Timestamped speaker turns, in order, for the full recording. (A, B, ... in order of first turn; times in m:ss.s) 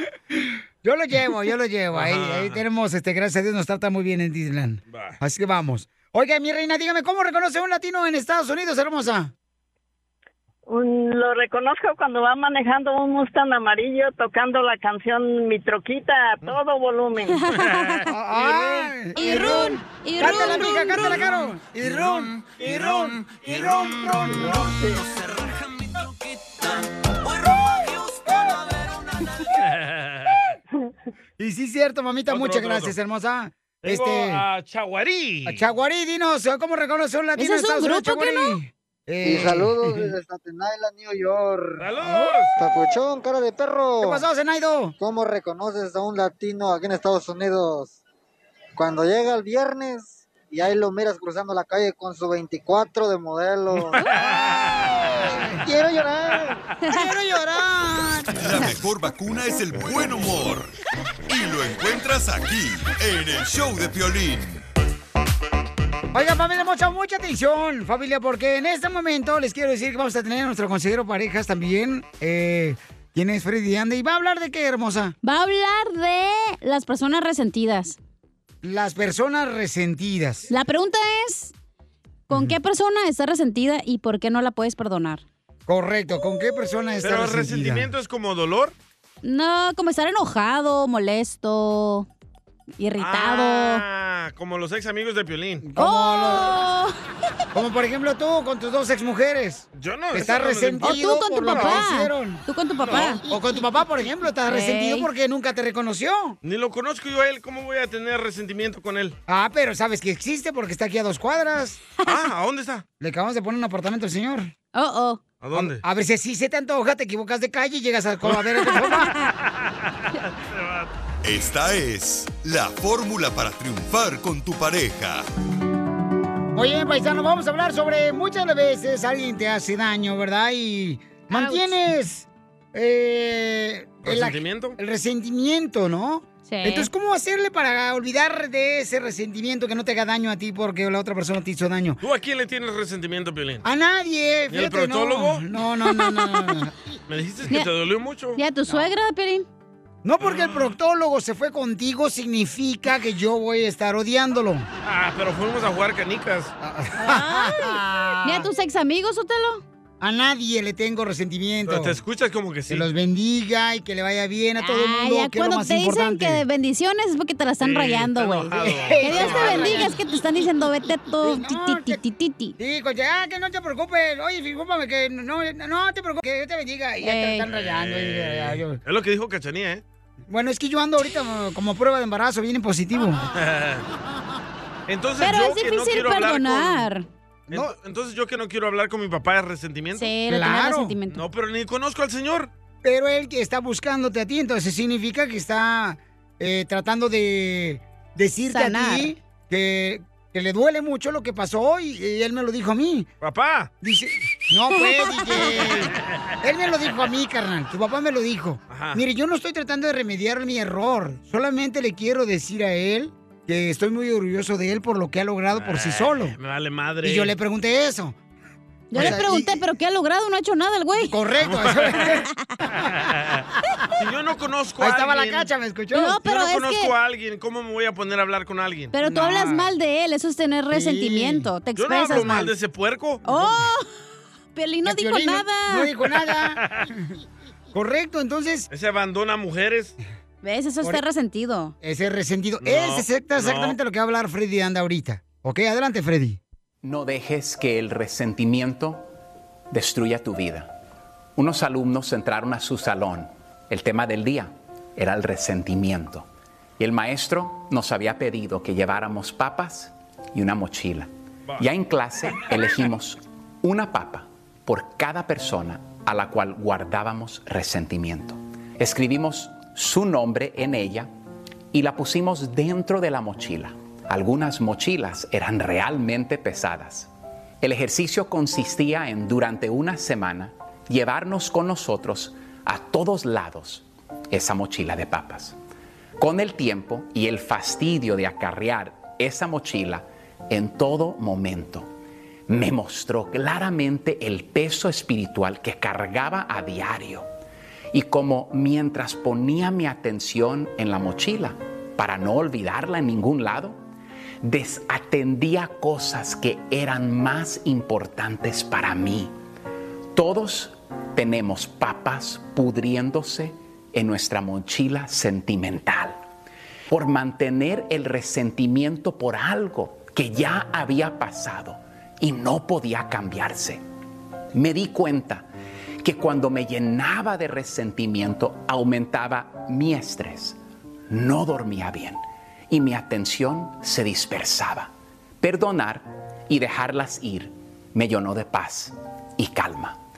0:00.8-0:09.3 A
0:01.9-0:02.6 B
0:04.9-0:05.2 B
0:10.7-0:17.4 C
0:17.3-0:18.1 D
0:18.1-0:23.2 A
0:18.3-0:18.9 B
0:19.2-0:21.4 D
0:22.6-0:24.1 B
0:24.3-0:25.0 C
0:29.6-0:30.5 B
0:31.4-0:34.4 A
0:32.3-0:33.0 B
0:33.8-0:35.7 B
0:35.4-0:40.1 A
0:37.4-0:38.6 D
0:39.2-0:41.9 E
0:41.8-0:42.5 B
0:42.0-0:42.3 A
0:42.6-0:44.2 E
0:44.0-0:44.9 A
0:45.0-0:48.0 E
0:48.7-0:54.0 E
0:54.1-0:54.9 B
0:54.8-0:55.6 A
0:55.6-0:56.6 E
0:56.9-0:58.4 A
0:58.4-1:00.7 F
1:01.3-1:04.6 F
1:06.1-1:15.2 A
1:15.2-1:18.0 D
1:18.6-1:20.5 A
1:20.5-1:21.5 D
1:22.3-1:25.2 D
1:22.3-1:22.6 A
1:25.7-1:27.9 A
1:27.0-1:28.7 B
1:29.2-1:32.1 D
1:32.8-1:33.8 D
1:33.0-1:35.7 B
1:35.6-1:36.6 A
1:35.8-1:37.0 D
1:37.5-1:42.4 A
1:39.8-1:41.9 B
1:40.8-1:43.2 D
1:42.8-1:43.4 B
1:43.2-1:46.4 A
1:44.4-1:45.1 D
1:46.4-1:49.2 B
1:49.3-1:51.8 A
1:52.0-1:52.8 B
1:53.0-1:54.5 A
1:54.7-1:55.2 D
1:55.4-1:55.8 B
1:55.5-1:59.1 A
1:58.9-1:59.3 D
1:59.4-2:00.9 B
2:01.2-2:05.3 F
2:06.5-2:22.0 A
2:11.3-2:11.7 D
2:14.0-2:14.8 B
2:16.4-2:16.9 D
2:22.0-2:23.6 B
2:23.6-2:26.7 A
2:24.5-2:25.5 B
2:26.0-2:26.5 D
2:27.1-2:28.4 B
2:28.4-2:29.5 D
2:30.0-2:34.7 A
2:30.2-2:30.8 B
2:34.8-2:36.5 B
2:36.6-2:38.5 A
2:37.0-2:39.6 D
2:40.0-2:42.0 A
2:41.6-2:42.9 B
2:42.7-2:46.4 A
2:44.6-2:52.6 D
2:47.6-2:49.9 B
2:48.6-2:50.4 A
2:51.2-2:52.0 A
2:52.6-2:58.8 A
2:57.0-2:57.4 D
2:57.4-2:59.8 B
3:00.3-3:03.3 A
3:03.3-3:03.8 B
3:04.9-3:06.9 B
3:05.2-3:07.1 D
3:07.5-3:07.8 A
3:07.5-3:10.1 B
3:09.9-3:11.2 D
3:10.3-3:11.0 A
3:11.1-3:12.5 B
3:12.8-3:23.1 A
3:18.5-3:19.1 D
3:23.2-3:23.7 B
3:23.8-3:36.4 A
3:25.0-3:25.4 D
3:28.7-3:29.0 B
3:35.6-3:37.4 B
3:37.0-3:38.2 A
3:38.9-3:41.1 D
3:38.9-3:39.6 A
3:41.0-3:42.2 A
3:41.4-3:42.1 B
3:42.8-3:43.4 B
3:44.0-3:45.5 B
3:44.8-3:46.2 A
3:45.9-3:46.9 D
3:46.2-3:48.9 B
3:48.9-3:52.5 D
3:49.0-3:49.7 A
3:50.7-3:51.5 A
3:51.8-3:53.2 B
3:53.2-3:53.9 D
3:54.5-3:55.9 D
3:54.8-3:56.6 A
3:57.7-3:58.7 A
3:58.7-4:00.0 B
4:00.4-4:01.7 D
4:01.8-4:06.4 A
4:02.6-4:03.8 B
4:06.8-4:09.1 G
4:09.7-4:10.7 G
4:11.4-4:16.2 G
4:16.8-4:31.1 G
4:31.7-4:37.1 G
4:37.6-4:45.6 G
4:46.2-4:51.9 G
4:52.5-4:57.3 G
4:57.9-5:03.8 G
5:04.4-5:09.3 G
5:10.1-5:16.2 G
5:16.9-5:23.8 G
5:24.5-5:25.5 G
5:26.0-5:30.6 G
5:31.1-5:40.0 G